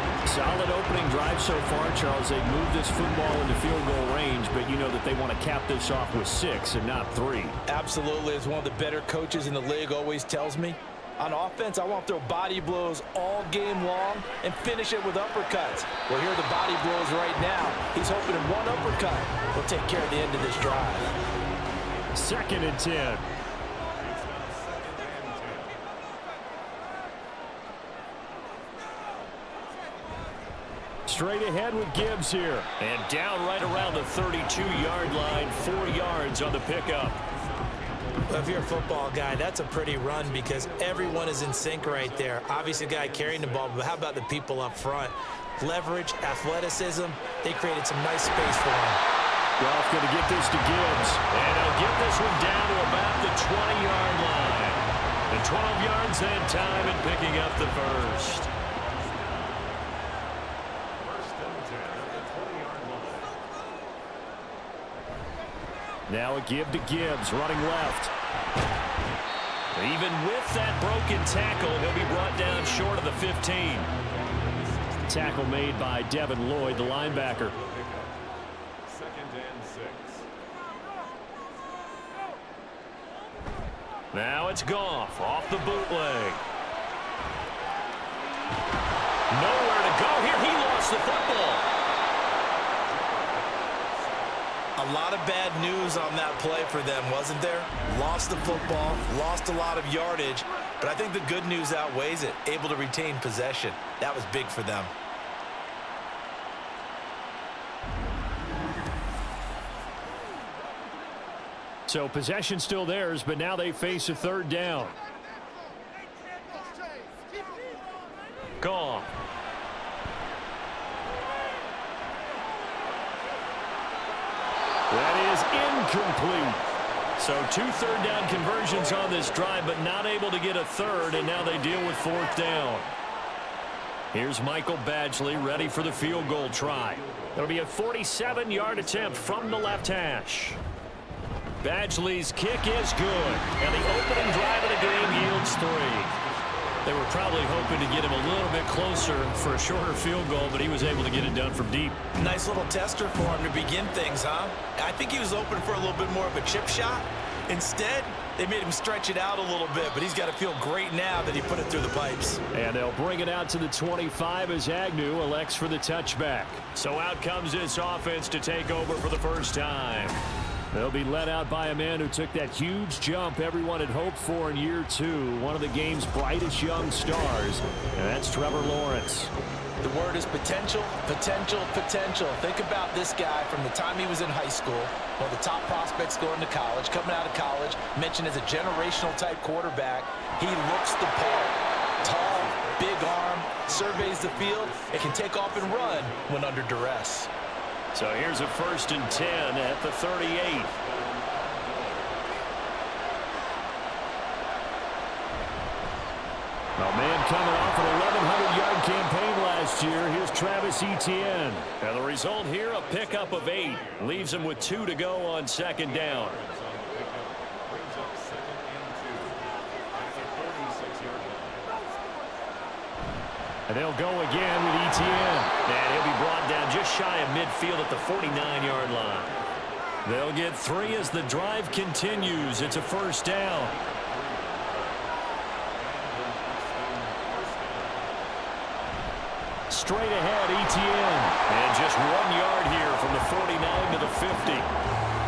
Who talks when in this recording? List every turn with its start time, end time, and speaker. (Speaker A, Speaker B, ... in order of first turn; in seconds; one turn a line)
Speaker A: 0.2-7.6
Speaker B: 7.7-21.1
Speaker A: 22.1-23.2
Speaker C: 24.0-25.8
Speaker A: 31.1-37.2
Speaker C: 35.4-36.2
Speaker C: 37.5-38.9
Speaker B: 38.3-49.0
Speaker C: 40.1-44.1
Speaker A: 49.6-58.5
Speaker C: 58.4-59.9
Speaker C: 61.0-63.4
Speaker A: 66.1-68.1
Speaker A: 69.7-73.9
Speaker C: 74.0-75.7
Speaker A: 75.1-77.5
Speaker C: 76.7-78.3
Speaker C: 78.8-80.3
Speaker A: 84.1-86.4
Speaker A: 89.3-91.7
Speaker C: 92.7-94.4
Speaker B: 94.8-104.9
Speaker A: 111.9-115.0
Speaker A: 118.6-119.1
Speaker A: 124.9-126.6
Speaker A: 127.2-132.9
Speaker A: 134.1-140.6
Speaker C: 135.4-137.6
Speaker C: 138.2-140.0
Speaker A: 141.6-146.1
Speaker C: 146.1-150.8
Speaker A: 146.8-152.0
Speaker B: 152.1-162.4
Speaker A: 162.5-170.2
Speaker A: 170.7-179.3
Speaker B: 179.8-197.3
Speaker C: 192.0-196.9
Speaker A: 197.9-200.7
Speaker C: 198.8-199.5
Speaker C: 200.7-202.4
Speaker A: 206.8-216.4
Speaker C: 212.6-221.9
Speaker A: 223.7-229.3
Speaker C: 229.0-229.8
Speaker A: 230.0-233.8
Speaker C: 231.3-235.1
Speaker C: 235.7-238.3
Speaker A: 239.7-244.7